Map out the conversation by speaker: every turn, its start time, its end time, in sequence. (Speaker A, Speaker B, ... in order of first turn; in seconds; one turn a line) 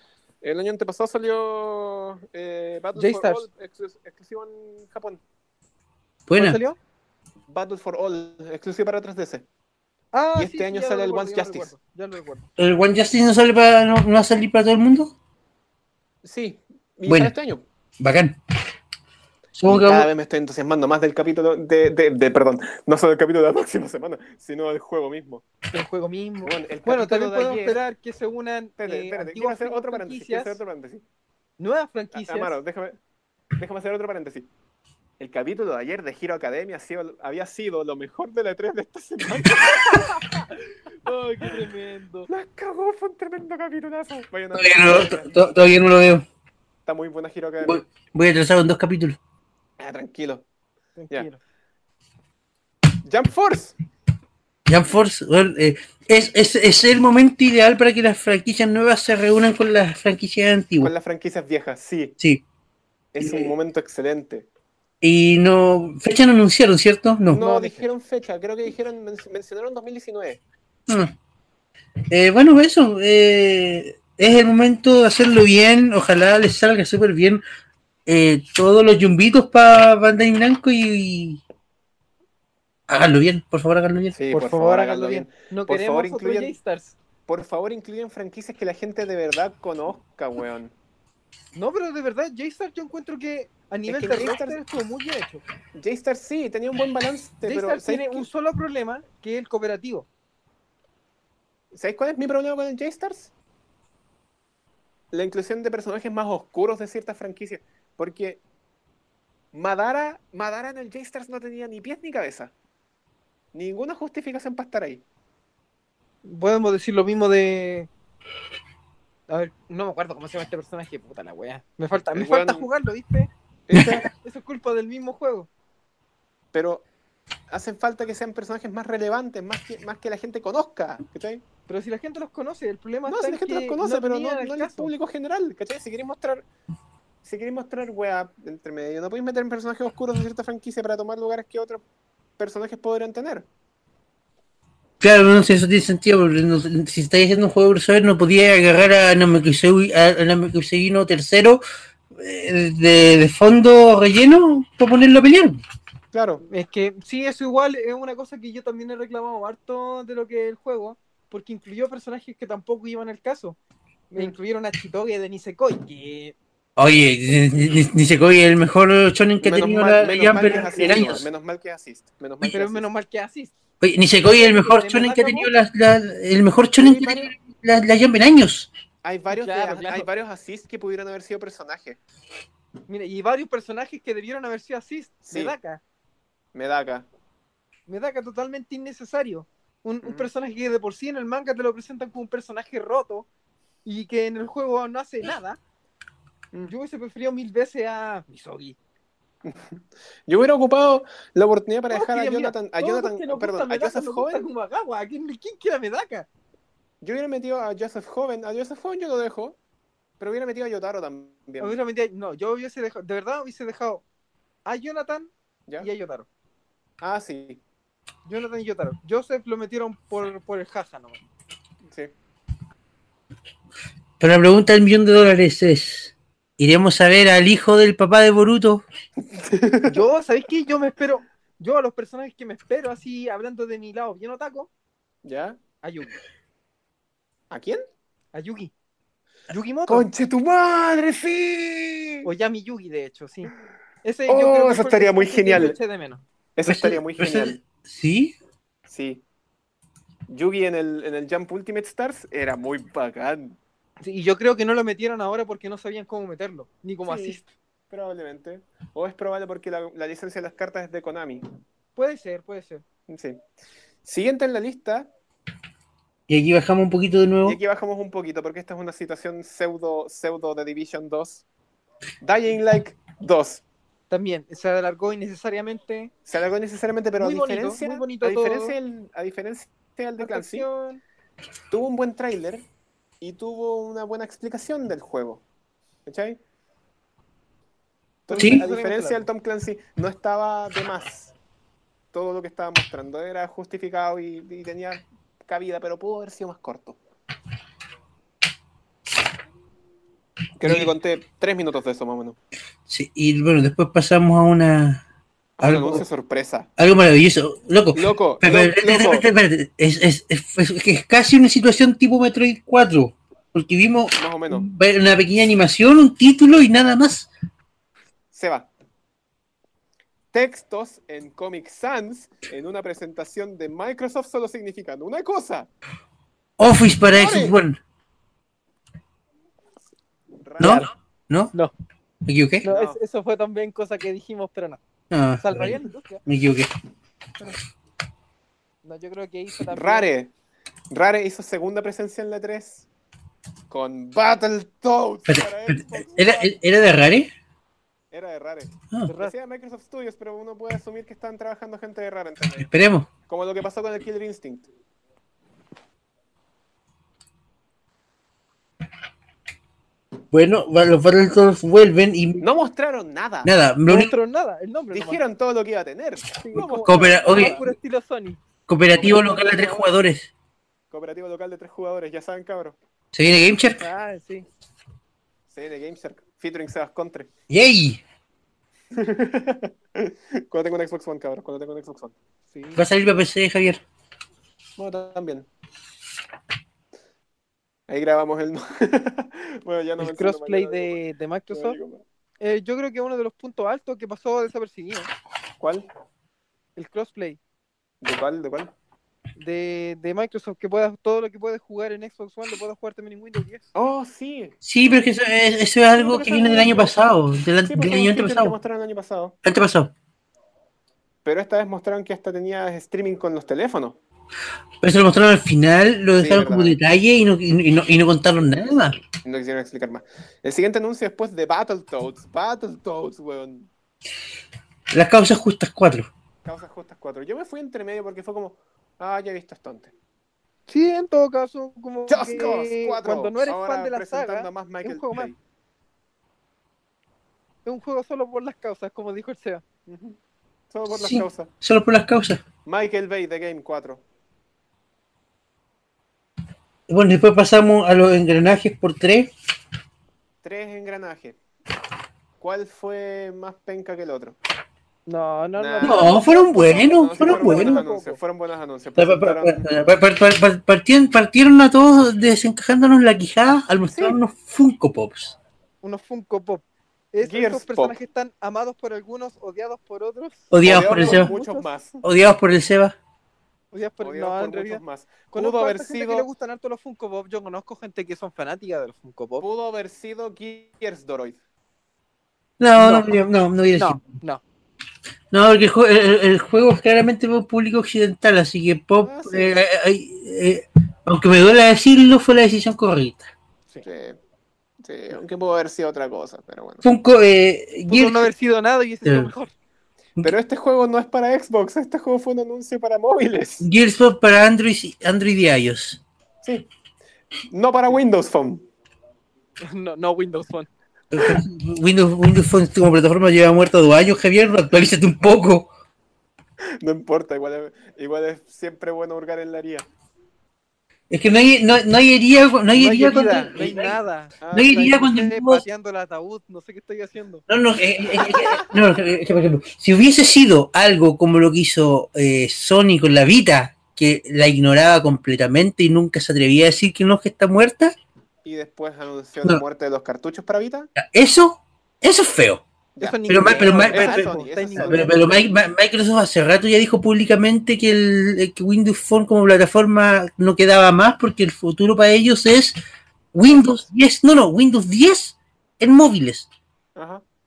Speaker A: 0.4-5.2
Speaker B: 3.0-3.5
Speaker C: 6.3-6.6
Speaker B: 6.3-6.8
Speaker A: 7.5-9.4
Speaker B: 10.1-12.5
Speaker A: 10.3-11.7
Speaker C: 12.6-15.1
Speaker A: 16.2-17.6
Speaker C: 17.1-17.3
Speaker C: 18.0-18.4
Speaker C: 19.6-20.1
Speaker A: 19.6-25.4
Speaker B: 25.7-30.6
Speaker A: 26.4-27.8
Speaker A: 28.8-31.0
Speaker B: 31.6-32.5
Speaker A: 32.1-33.0
Speaker A: 33.6-34.5
Speaker A: 35.2-40.4
Speaker B: 41.0-42.3
Speaker A: 42.3-45.5
Speaker C: 44.5-46.2
Speaker A: 46.9-47.8
Speaker C: 47.6-49.2
Speaker A: 49.8-50.4
Speaker B: 51.0-51.4
Speaker A: 53.0-53.8
Speaker C: 54.7-60.9
Speaker A: 60.8-62.1
Speaker A: 63.1-64.5
Speaker C: 63.2-63.5
Speaker C: 65.0-67.4
Speaker A: 67.3-70.4
Speaker B: 67.3-67.9
Speaker C: 72.1-77.4
Speaker C: 78.0-81.4
Speaker C: 82.9-84.2
Speaker A: 84.1-86.5
Speaker B: 84.3-87.0
Speaker A: 87.3-90.7
Speaker B: 91.5-95.4
Speaker A: 93.9-94.6
Speaker A: 95.7-98.3
Speaker B: 97.4-100.1
Speaker A: 101.7-103.3
Speaker A: 105.1-108.4
Speaker A: 109.5-112.5
Speaker A: 113.5-115.0
Speaker B: 116.2-117.9
Speaker B: 119.3-123.3
Speaker A: 122.1-122.7
Speaker A: 123.7-124.1
Speaker C: 123.7-124.0
Speaker B: 124.1-125.5
Speaker A: 126.5-126.8
Speaker A: 127.5-131.4
Speaker B: 131.7-134.9
Speaker A: 133.1-136.4
Speaker A: 137.2-141.8
Speaker A: 142.4-143.5
Speaker C: 145.0-151.6
Speaker C: 152.1-155.6
Speaker A: 156.1-156.4
Speaker B: 156.4-163.6
Speaker B: 164.1-166.3
Speaker C: 166.8-171.2
Speaker A: 169.4-172.8
Speaker B: 170.3-171.0
Speaker B: 172.4-173.5
Speaker C: 173.8-178.7
Speaker B: 174.2-175.5
Speaker A: 176.8-177.3
Speaker A: 179.0-182.0
Speaker B: 179.3-180.1
Speaker B: 182.9-185.8
Speaker A: 185.2-185.5
Speaker A: 186.5-187.1
Speaker B: 187.9-193.3
Speaker A: 190.0-190.3
Speaker B: 193.8-195.6
Speaker B: 196.6-198.8
Speaker A: 199.4-204.5
Speaker B: 201.9-206.3
Speaker A: 207.0-209.6
Speaker A: 210.2-211.8
Speaker B: 211.6-214.0
Speaker B: 214.6-216.3
Speaker A: 217.0-217.6
Speaker B: 218.2-221.2
Speaker C: 224.2-228.8
Speaker A: 229.3-230.0
Speaker B: 229.8-234.7
Speaker A: 235.2-235.6
Speaker B: 235.8-236.2
Speaker A: 237.5-237.8
Speaker B: 238.3-238.7
Speaker B: 239.5-240.1
Speaker A: 239.9-242.3
Speaker B: 242.2-246.2
Speaker A: 244.3-245.8
Speaker A: 246.6-247.6
Speaker C: 246.6-248.3
Speaker A: 248.9-249.2
Speaker A: 250.3-253.6
Speaker B: 254.0-257.5
Speaker A: 257.0-261.4
Speaker B: 261.9-262.8
Speaker A: 263.1-263.4
Speaker A: 264.0-265.1
Speaker C: 266.3-267.6
Speaker A: 267.4-271.4
Speaker A: 272.2-273.6
Speaker B: 274.1-276.1
Speaker A: 276.3-280.7
Speaker B: 277.2-278.7
Speaker B: 280.2-281.0
Speaker A: 281.7-282.6
Speaker A: 283.2-285.4
Speaker A: 286.1-286.4
Speaker A: 288.3-291.3
Speaker B: 288.3-289.3
Speaker C: 288.4-288.6
Speaker A: 292.1-297.0
Speaker A: 300.6-302.4
Speaker C: 300.6-300.9
Speaker C: 302.9-305.0
Speaker A: 305.6-306.7
Speaker C: 305.6-306.0
Speaker C: 306.8-317.3
Speaker A: 307.9-309.3
Speaker A: 314.1-314.7
Speaker A: 318.3-318.7
Speaker A: 320.3-325.7
Speaker C: 326.6-327.8
Speaker A: 327.1-327.6
Speaker A: 330.4-330.9
Speaker C: 330.6-331.5
Speaker C: 332.2-332.7
Speaker B: 332.6-334.8
Speaker A: 332.7-333.0
Speaker C: 335.1-336.7
Speaker B: 335.4-336.2
Speaker B: 338.8-340.1
Speaker A: 339.7-340.3
Speaker A: 340.9-342.9
Speaker A: 343.7-346.6
Speaker C: 345.3-347.3
Speaker A: 348.1-352.7
Speaker B: 349.1-349.3
Speaker C: 352.6-353.1
Speaker A: 353.3-354.7
Speaker C: 360.3-362.4
Speaker A: 362.4-363.5
Speaker C: 363.4-364.1
Speaker B: 363.9-365.2
Speaker A: 364.9-367.7
Speaker B: 366.4-368.4
Speaker C: 366.8-367.6
Speaker C: 368.7-370.3
Speaker B: 368.9-369.9
Speaker A: 370.9-372.8
Speaker C: 373.1-373.8
Speaker B: 373.8-374.5
Speaker A: 375.5-377.3
Speaker C: 377.5-378.0
Speaker A: 378.9-382.1
Speaker B: 382.5-382.9
Speaker C: 382.8-383.8
Speaker A: 384.8-385.5
Speaker A: 387.9-391.0
Speaker B: 390.0-391.8
Speaker A: 391.5-392.0
Speaker B: 392.4-395.1
Speaker A: 395.6-395.9
Speaker B: 396.8-397.4
Speaker A: 398.0-398.7
Speaker B: 399.4-403.6
Speaker A: 403.7-404.5
Speaker C: 404.6-408.5
Speaker A: 405.9-406.9
Speaker A: 407.6-409.4
Speaker C: 409.4-409.9
Speaker A: 411.2-414.0
Speaker C: 414.8-419.0
Speaker A: 416.2-416.8
Speaker A: 419.2-423.7
Speaker C: 424.9-426.1
Speaker A: 426.4-429.9
Speaker B: 430.7-435.3
Speaker A: 432.1-435.4
Speaker B: 437.6-439.6
Speaker A: 439.9-440.2
Speaker A: 440.7-441.5
Speaker C: 440.9-442.4
Speaker A: 442.6-444.0
Speaker C: 446.9-449.3
Speaker A: 450.4-451.4
Speaker A: 452.4-454.4
Speaker B: 455.1-456.2
Speaker A: 455.6-459.7
Speaker C: 455.8-457.8
Speaker B: 457.2-458.2
Speaker C: 459.0-465.4
Speaker A: 463.9-464.2
Speaker B: 465.8-471.7
Speaker A: 467.2-468.0
Speaker C: 470.5-471.3
Speaker A: 470.6-472.0
Speaker C: 472.0-472.9
Speaker B: 473.7-479.4
Speaker A: 474.0-476.3
Speaker A: 479.4-481.4
Speaker C: 482.6-484.1
Speaker B: 482.8-483.2
Speaker B: 483.7-484.4
Speaker C: 485.3-493.3
Speaker A: 489.0-489.5
Speaker A: 493.8-494.2
Speaker A: 494.8-496.8
Speaker C: 496.8-498.3
Speaker B: 497.9-499.5
Speaker C: 499.1-499.3
Speaker A: 500.2-503.6
Speaker C: 503.6-506.0
Speaker A: 506.4-506.7
Speaker A: 507.5-508.6
Speaker B: 509.6-510.7
Speaker C: 511.1-515.7
Speaker A: 516.8-519.9
Speaker C: 521.1-523.9
Speaker B: 522.7-527.4
Speaker A: 524.4-524.9
Speaker C: 524.5-525.6
Speaker C: 527.5-537.9
Speaker A: 538.4-540.9
Speaker C: 541.0-542.6
Speaker A: 543.0-545.2
Speaker B: 543.0-545.3
Speaker C: 543.3-552.8
Speaker C: 553.3-556.5
Speaker A: 557.0-557.2